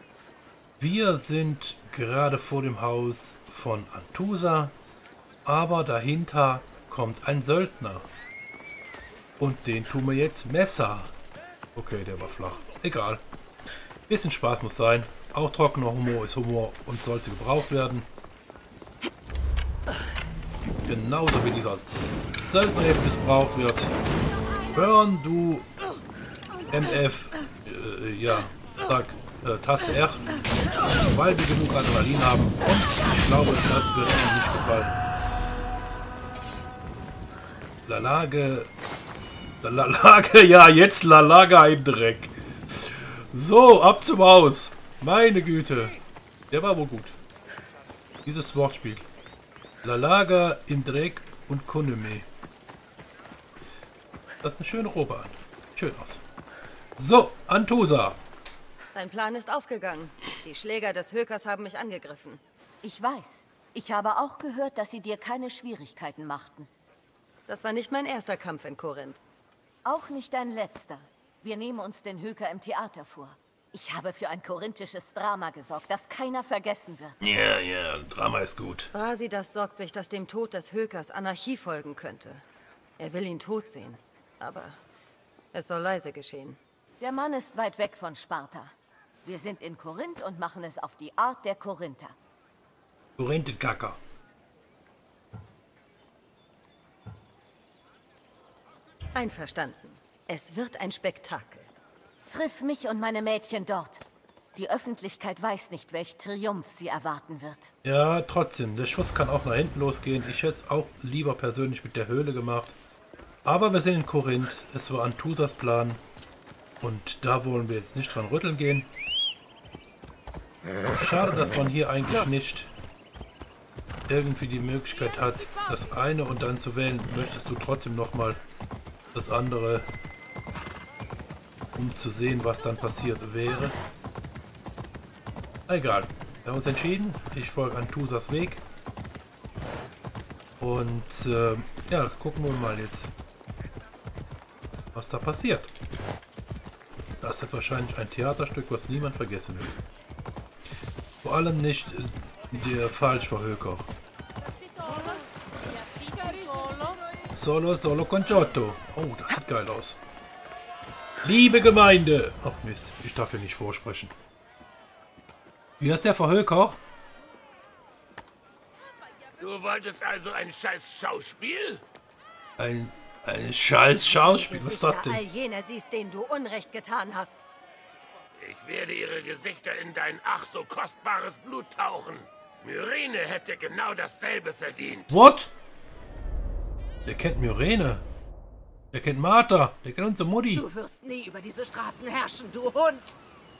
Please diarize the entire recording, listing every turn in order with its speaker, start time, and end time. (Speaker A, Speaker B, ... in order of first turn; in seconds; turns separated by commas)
Speaker A: 0.8-4.7, Speaker A: 5.5-8.1, Speaker A: 9.4-11.1, Speaker A: 11.8-13.2, Speaker A: 14.1-18.1, Speaker A: 20.9-21.9, Speaker A: 22.4-23.9, Speaker A: 24.7-25.7, Speaker A: 26.7-30.4, Speaker A: 31.1-35.0, Speaker A: 37.9-38.7, Speaker A: 39.6-46.0, Speaker A: 46.5-47.2, Speaker A: 48.2-49.0, Speaker A: 49.8-52.3, Speaker A: 54.4-56.2, Speaker A: 57.0-58.2, Speaker B: 58.9-62.4, Speaker C: 62.8-66.7, Speaker B: 67.5-69.2, Speaker C: 69.8-77.2, Speaker A: 77.2-78.9, Speaker B: 78.9-82.4, Speaker B: 83.0-84.8, Speaker B: 85.5-86.6, Speaker C: 87.0-92.2, Speaker A: 93.2-94.0, Speaker B: 99.2-101.7, Speaker C: 102.3-104.0, Speaker C: 104.5-107.7, Speaker A: 107.8-112.8, Speaker A: 113.4-116.0, Speaker A: 116.8-118.9, Speaker A: 120.9-122.7, Speaker A: 124.1-128.4, Speaker A: 129.2-129.9, Speaker A: 131.8-133.8, Speaker A: 135.7-138.6, Speaker A: 140.6-143.1, Speaker A: 144.9-145.7, Speaker A: 147.2-149.8, Speaker A: 151.2-153.9, Speaker A: 157.3-160.0, Speaker A: 161.2-164.1, Speaker A: 165.8-166.8, Speaker D: 169.4-171.8, Speaker A: 172.6-175.2, Speaker B: 174.0-177.4, Speaker D: 178.4-185.2, Speaker A: 185.1-185.5, Speaker A: 187.1-188.0, Speaker A: 188.9-190.7, Speaker E: 190.5-193.2